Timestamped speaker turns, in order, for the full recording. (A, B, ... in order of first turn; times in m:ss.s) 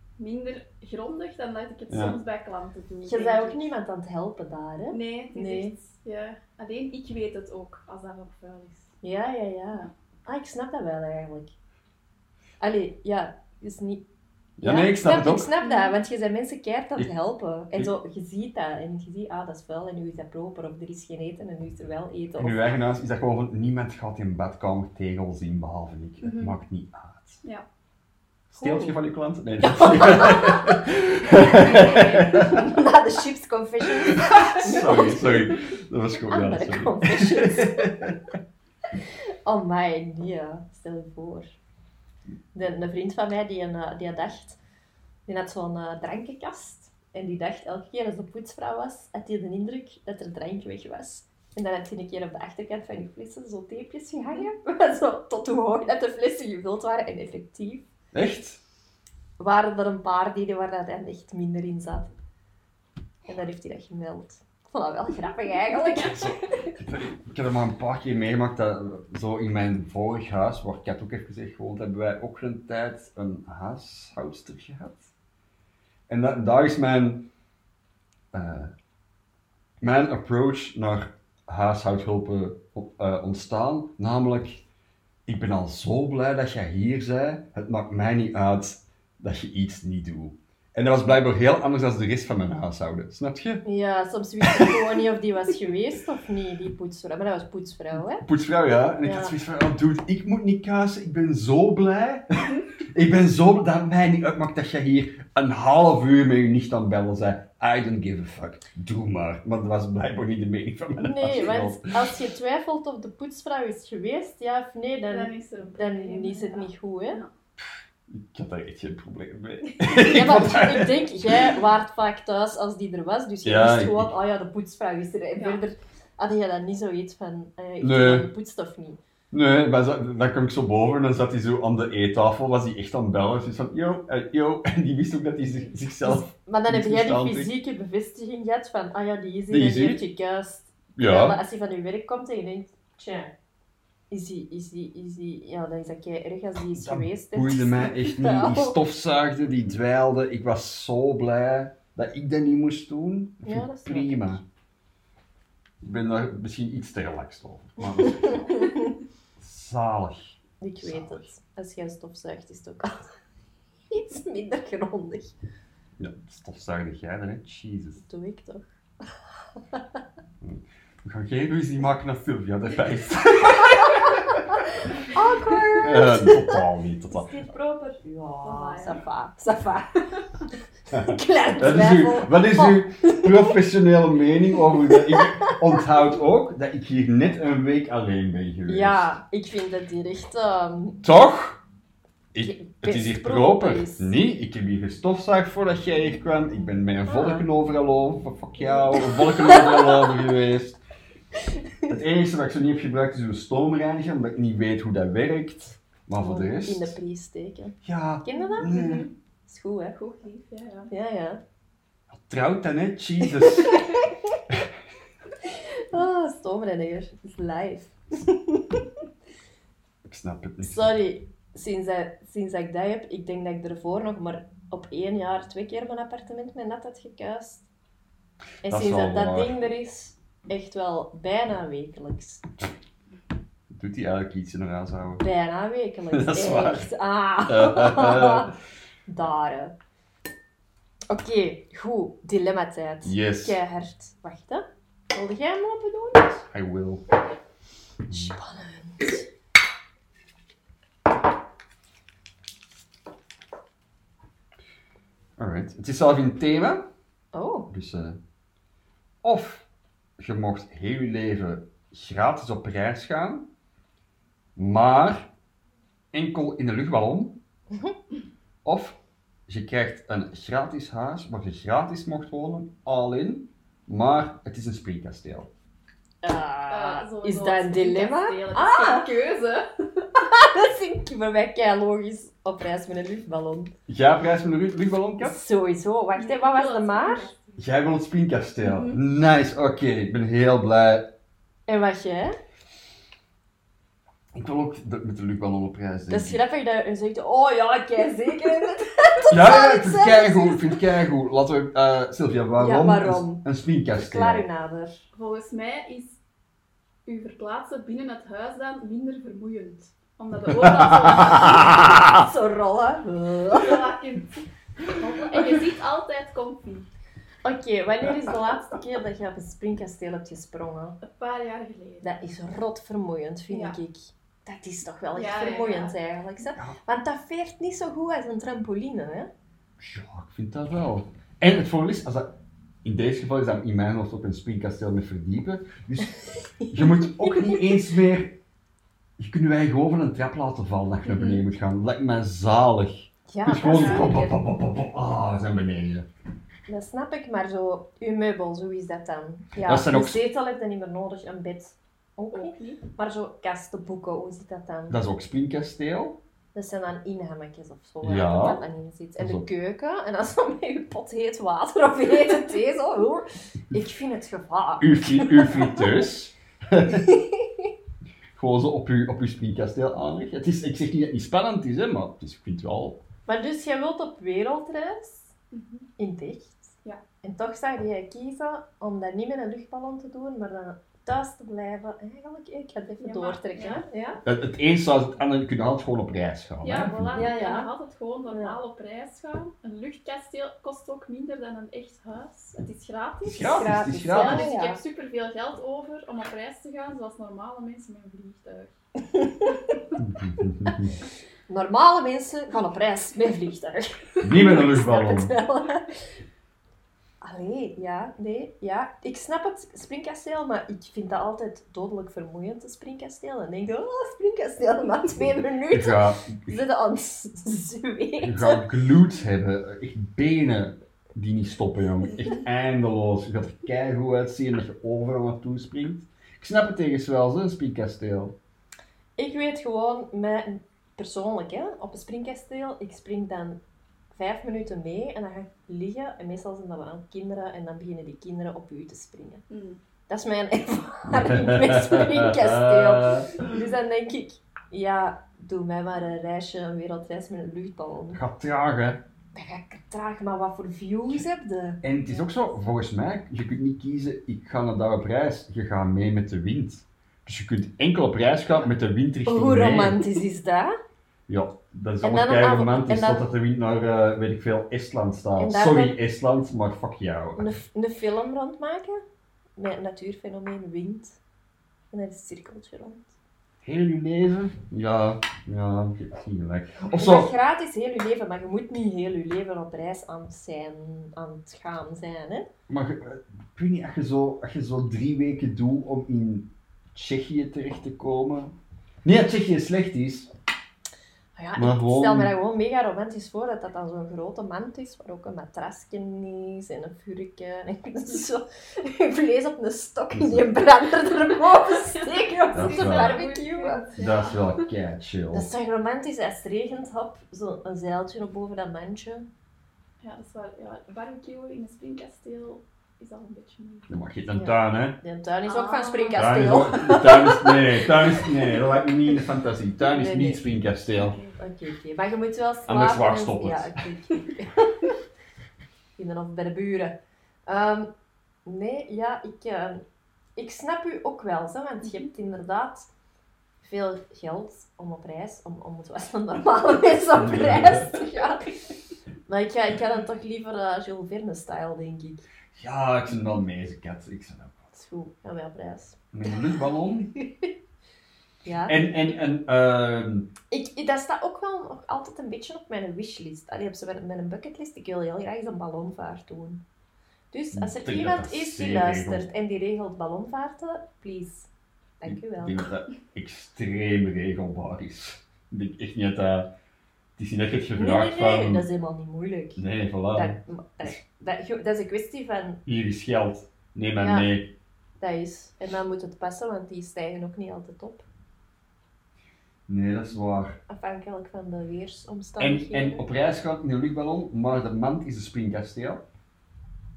0:00.2-0:03.7 A
0:01.9-0:02.2 B
0:03.0-0:05.7 C
0:04.9-0:08.9 A
0:09.0-0:11.5 C
0:12.6-0:14.0 C
0:14.6-0:15.5 B
0:14.6-0:22.7 C
0:15.6-0:15.9 A
0:22.4-0:27.4 B
0:26.2-0:26.6 A
0:28.5-0:32.7 B
0:28.6-0:29.0 C
0:29.6-0:35.6 C
0:31.7-0:32.3 A
0:33.9-0:38.2 B
0:36.2-0:38.0 C
0:39.4-0:41.5 C
0:42.5-0:44.6 C
0:45.2-0:57.9 C
0:58.1-0:58.6 B
0:59.4-1:02.1 C
1:03.2-1:06.8 C
1:05.7-1:06.2 A
1:06.1-1:15.1 B
1:16.1-1:17.3 B
1:18.3-1:18.7 B
1:19.8-1:24.6 B
1:25.2-1:33.6 B
1:33.6-1:38.2 C
1:34.4-1:34.9 B
1:38.2-1:52.1 B
1:39.0-1:39.3 C
1:51.0-1:57.2 C
1:55.1-1:57.3 A
1:58.1-2:01.6 B
1:59.8-2:09.0 C
2:03.4-2:04.1 B
2:05.4-2:05.6 A
2:07.8-2:08.3 B
2:09.3-2:17.5 B
2:16.0-2:23.3 C
2:19.5-2:20.0 B
2:21.0-2:21.4 B
2:24.1-2:28.8 C
2:26.7-2:34.4 B
2:33.4-2:34.4 C
2:35.8-2:38.7 B
2:38.1-2:38.9 C
2:39.4-2:41.3 B
2:40.6-2:43.1 C
2:43.9-2:45.3 C
2:46.0-2:48.0 B
2:48.0-2:48.6 C
2:50.4-2:54.4 B
2:53.8-2:54.4 C
2:55.0-3:00.1 C
2:55.8-2:57.3 B
2:58.4-2:59.0 A
3:00.9-3:09.2 B
3:00.9-3:03.5 C
3:04.8-3:05.8 C
3:08.7-3:11.0 C
3:11.0-3:11.6 B
3:12.3-3:20.8 B
3:12.4-3:14.1 C
3:17.1-3:17.4 C
3:19.0-3:20.1 C
3:21.9-3:27.0 B
3:26.2-3:30.0 C
3:27.8-3:29.1 B
3:28.6-3:29.1 A
3:29.9-3:30.9 A
3:30.9-3:31.4 C
3:32.1-3:33.8 B
3:33.4-3:34.4 C
3:35.9-3:38.8 C
3:40.0-3:41.0 B
3:40.6-3:47.7 C
3:48.6-3:52.5 C
3:48.6-3:49.6 B
3:53.7-3:55.2 B
3:55.2-3:58.5 C
3:56.1-3:56.9 B
3:57.5-3:58.5 B
3:59.1-3:59.7 C
4:01.1-4:06.5 C
4:03.0-4:03.6 B
4:06.5-4:07.0 B
4:08.1-4:08.3 B
4:08.1-4:09.2 C
4:15.4-4:16.9 B
4:17.3-4:17.7 C
4:17.7-4:18.2 B
4:19.2-4:19.7 B
4:20.2-4:23.5 B
4:24.6-4:25.3 B
4:26.1-4:27.4 B
4:28.6-4:29.0 B
4:29.5-4:35.5 B
4:36.2-4:39.1 C
4:36.7-4:40.1 A
4:40.2-4:43.7 C
4:43.9-4:45.4 B
4:45.2-4:47.3 C
4:46.2-4:47.6 A
4:47.6-4:51.1 B
4:48.6-4:49.0 A
4:51.7-4:52.4 C
4:54.3-4:56.4 B
4:56.1-5:00.8 C
4:59.3-5:04.5 B
5:02.6-5:05.0 C
5:05.1-5:06.2 A
5:07.0-5:11.8 A
5:10.5-5:12.2 B
5:11.2-5:13.9 C
5:13.5-5:16.9 A
5:17.4-5:21.0 C
5:21.0-5:22.2 A
5:22.0-5:29.3 C
5:23.5-5:23.8 A
5:25.1-5:25.9 A
5:29.8-5:32.3 B
5:32.8-5:38.4 B
5:36.6-5:37.6 C
5:39.2-5:46.0 B
5:43.3-5:44.4 C
5:43.6-5:44.1 A
5:46.7-5:55.0 C
5:49.6-5:50.2 B
5:52.3-5:52.8 A
5:54.9-5:56.2 B
5:56.5-6:05.9 C
5:58.0-5:58.6 B
5:59.2-5:59.4 B
6:04.8-6:07.2 B
6:06.9-6:07.7 C
6:08.4-6:13.0 B
6:13.2-6:15.3 C
6:15.5-6:15.9 A
6:16.0-6:24.2 C
6:23.0-6:23.8 A
6:24.2-6:27.3 B
6:26.6-6:38.7 A
6:27.1-6:27.7 C
6:33.2-6:34.5 B
6:33.4-6:34.8 C
6:39.1-6:39.8 C
6:40.0-6:40.9 B
6:41.5-6:45.9 C
6:44.2-6:45.3 B
6:47.2-6:58.6 C
6:55.7-6:56.6 B
6:58.2-7:08.3 B
7:09.2-7:13.6 C
7:14.1-7:19.4 C
7:19.5-7:19.8 A
7:20.1-7:28.2 C
7:21.1-7:23.5 B
7:28.1-7:29.0 B
7:29.3-7:32.3 C
7:31.8-7:40.0 B
7:39.2-7:40.7 C
7:41.3-7:47.5 B
7:42.0-7:43.3 C
7:45.4-7:46.0 C
7:47.4-7:49.0 C
7:49.6-7:51.2 C
7:51.9-7:53.1 C
7:53.6-7:57.3 B
7:57.0-8:02.5 C
8:02.7-8:10.3 B
8:11.4-8:23.9 C
8:11.6-8:12.3 B
8:20.1-8:20.4 B
8:21.8-8:24.7 A
8:22.5-8:23.2 B
8:24.0-8:25.5 B
8:25.3-8:29.3 C
8:30.0-8:34.0 A
8:33.9-8:35.0 B
8:34.3-8:38.6 C
8:35.4-8:36.4 A
8:36.2-8:41.2 B
8:39.8-8:40.5 C
8:40.9-8:41.4 A
8:41.4-8:45.0 C
8:42.7-8:43.7 B
8:46.0-8:47.9 C
8:48.4-8:49.8 C
8:50.4-8:52.9 C
8:53.6-8:58.5 C
8:57.2-8:57.9 B
8:59.3-9:02.2 C
9:02.5-9:04.6 B
9:04.7-9:06.0 C
9:06.1-9:07.1 B
9:07.2-9:07.5 C
9:08.4-9:08.9 C
9:08.6-9:10.3 B
9:10.5-9:16.6 C
9:17.3-9:21.5 C
9:17.5-9:19.2 B
9:22.0-9:22.6 C
9:22.0-9:26.5 B
9:27.2-9:28.6 B
9:27.8-9:32.6 C
9:29.6-9:30.9 B
9:32.6-9:34.5 B
9:34.0-9:34.3 C
9:35.0-9:38.0 C
9:39.7-9:40.6 B
9:40.7-9:43.0 C
9:42.4-9:46.0 B